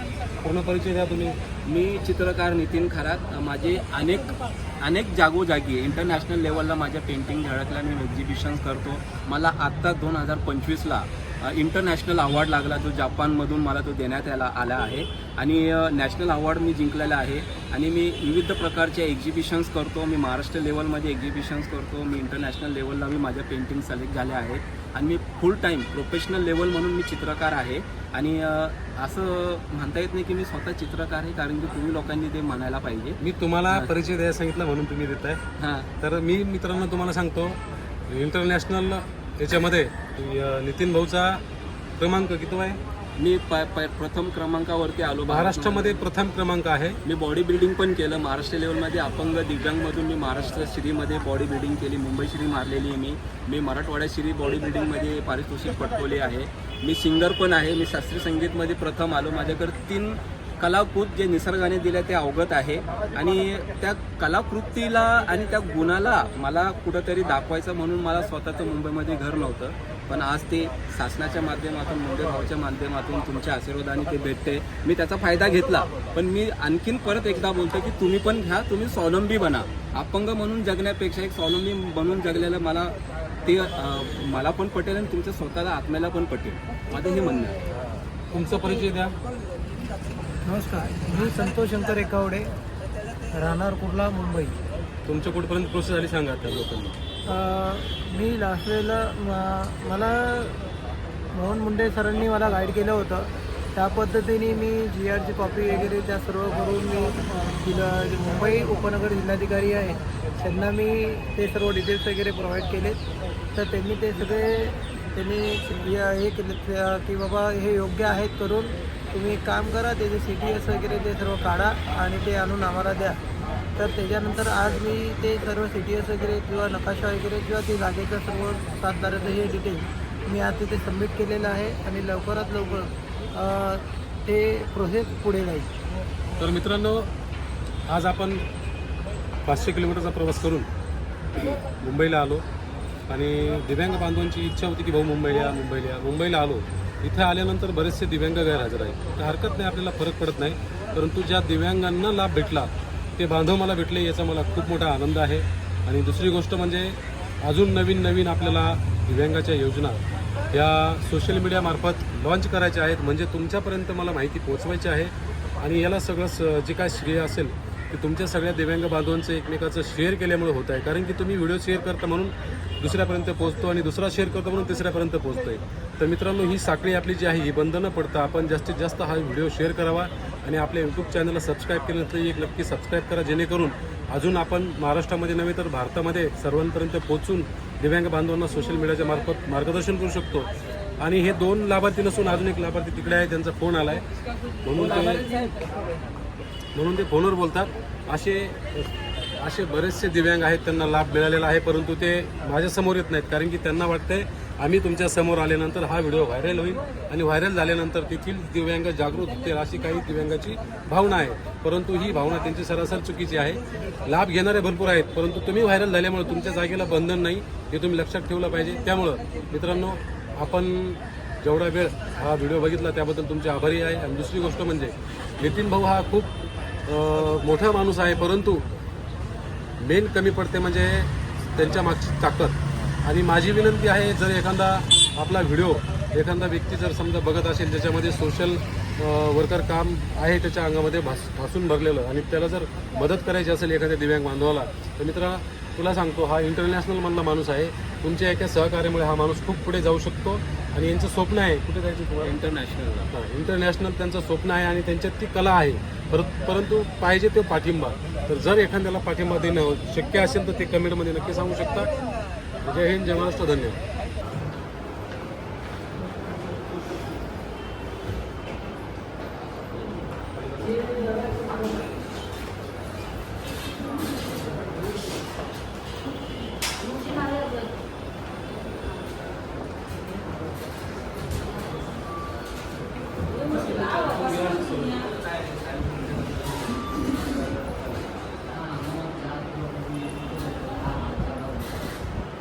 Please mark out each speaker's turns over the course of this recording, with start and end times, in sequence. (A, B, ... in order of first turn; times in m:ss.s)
0:00.4-0:01.4 A
0:01.6-0:33.9 B
0:33.2-0:35.4 A
0:35.6-0:35.9 B
0:36.0-0:41.4 A
0:42.0-0:42.8 A
0:43.2-0:46.1 B
0:45.3-0:47.0 A
0:47.0-1:27.6 B
1:28.3-1:29.2 A
1:30.4-1:32.5 C
1:33.3-1:34.6 C
1:35.1-1:37.0 A
1:37.3-1:40.6 C
1:41.3-1:53.0 C
1:53.5-2:03.2 C
2:03.8-2:15.7 C
2:16.4-2:17.1 A
2:17.9-2:18.4 A
2:19.5-2:20.7 A
2:21.4-2:21.6 B
2:21.6-2:22.4 A
2:23.1-3:14.0 A
3:14.6-3:15.3 A
3:16.8-3:46.3 A
3:46.9-3:48.7 A
3:49.8-4:12.3 A
4:12.2-4:13.1 B
4:13.1-4:21.9 A
4:22.6-4:23.8 A
4:43.4-4:47.5 B
4:48.5-4:51.7 B